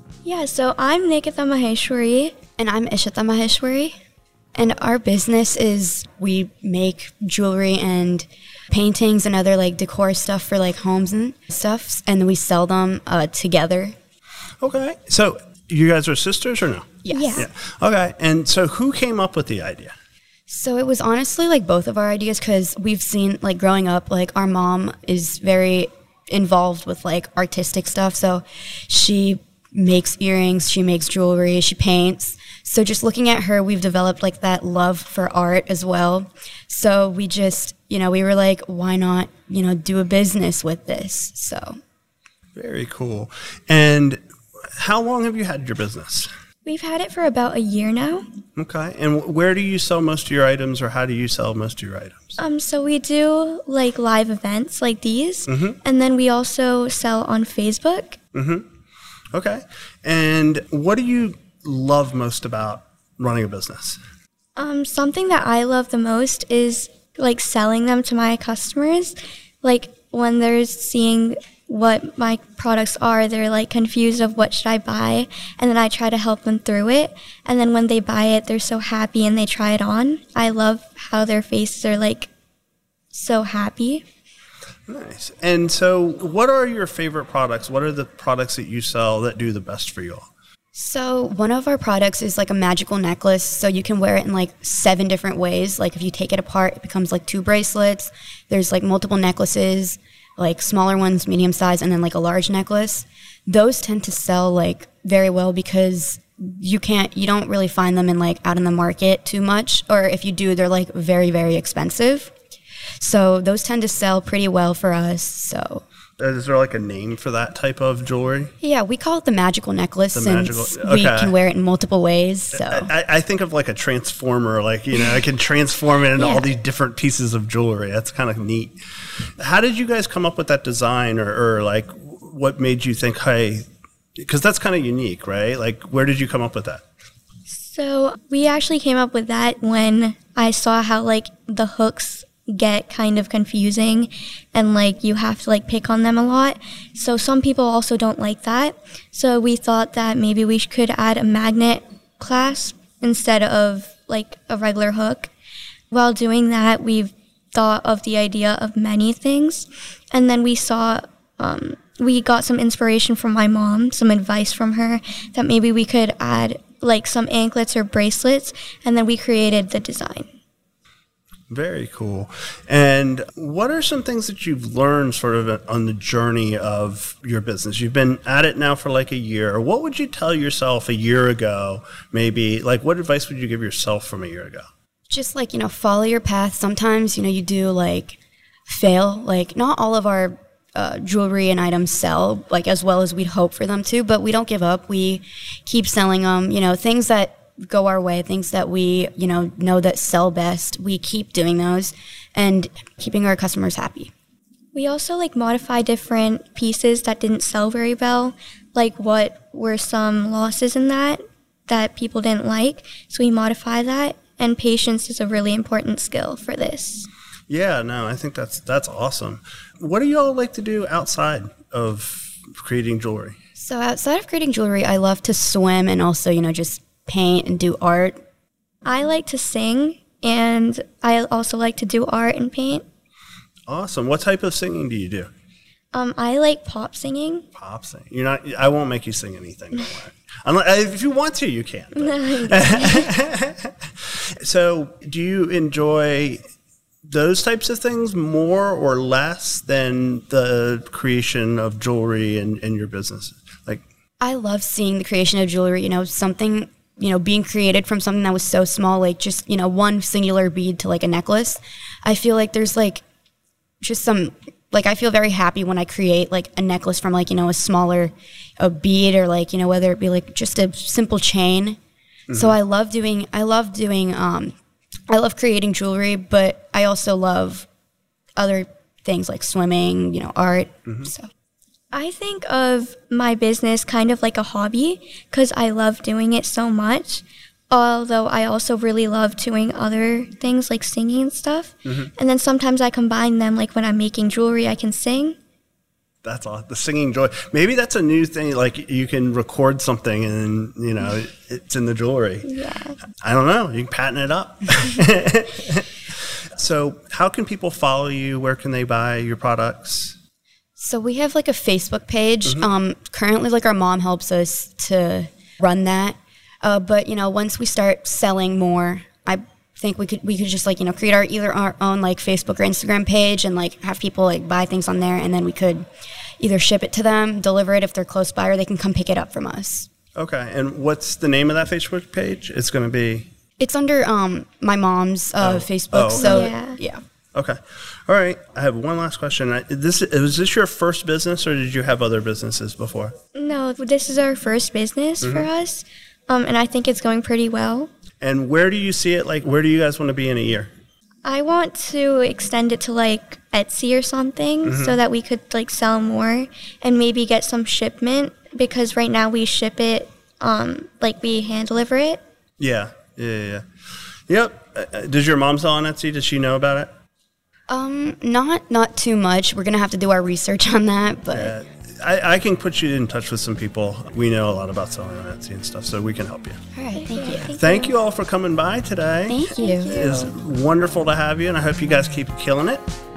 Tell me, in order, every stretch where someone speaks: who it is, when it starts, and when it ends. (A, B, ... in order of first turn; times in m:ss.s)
0:00.2-0:02.4 A
0:02.6-0:04.0 B
0:04.6-0:14.0 B
0:14.6-0:20.0 C
0:17.0-0:17.5 B
0:17.1-0:17.4 A
0:20.5-0:41.8 B
0:42.5-0:44.2 C
0:44.8-0:46.3 C
0:46.6-0:48.3 A
0:48.6-0:52.4 C
0:52.4-0:58.2 A
0:55.5-0:55.8 C
0:58.3-0:58.6 C
0:59.3-1:04.0 C
1:04.6-1:22.3 A
1:23.1-1:24.0 A
1:24.9-1:30.3 C
1:30.7-1:52.3 B
1:53.0-1:55.8 B
1:56.2-1:58.5 C
1:58.6-2:02.9 B
2:00.1-2:01.3 C
2:02.5-2:08.8 C
2:06.2-2:06.5 A
2:09.4-2:13.7 C
2:14.2-2:16.8 C
2:17.5-2:35.3 A
2:35.9-2:50.3 A
2:51.5-3:04.7 C
3:05.1-3:24.1 B
3:24.7-3:37.1 A
3:37.5-3:43.4 C
3:43.6-3:48.2 B
3:48.8-3:52.8 A
3:53.7-3:55.3 C
3:55.9-3:57.4 A
3:57.5-4:06.4 C
4:02.0-4:03.1 A
4:07.1-4:13.8 C
4:14.2-4:23.0 B
4:23.8-4:31.8 B
4:32.3-4:32.6 C
4:32.3-4:34.6 B
4:35.1-4:37.7 B
4:38.4-4:41.3 B
4:41.9-4:55.4 A
4:51.8-4:52.1 C
4:56.2-5:02.5 C
5:02.4-5:02.9 A
5:03.2-5:05.9 C
5:06.6-5:10.2 C
5:10.8-5:25.8 B
5:26.4-5:29.9 B
5:30.2-5:33.3 C
5:33.6-5:37.0 B
5:35.4-5:36.5 C
5:36.2-5:36.8 A
5:37.3-5:43.1 C
5:43.3-5:47.9 A
5:45.2-5:45.5 C
5:48.2-5:50.7 C
5:51.2-6:02.2 A
5:54.6-5:55.0 C
6:02.6-6:03.6 C
6:04.3-6:06.9 C
6:07.7-6:11.5 B
6:11.3-6:16.6 C
6:16.7-6:17.5 B
6:16.9-6:17.9 A
6:17.4-6:22.8 C
6:19.3-6:20.3 B
6:19.5-6:20.3 A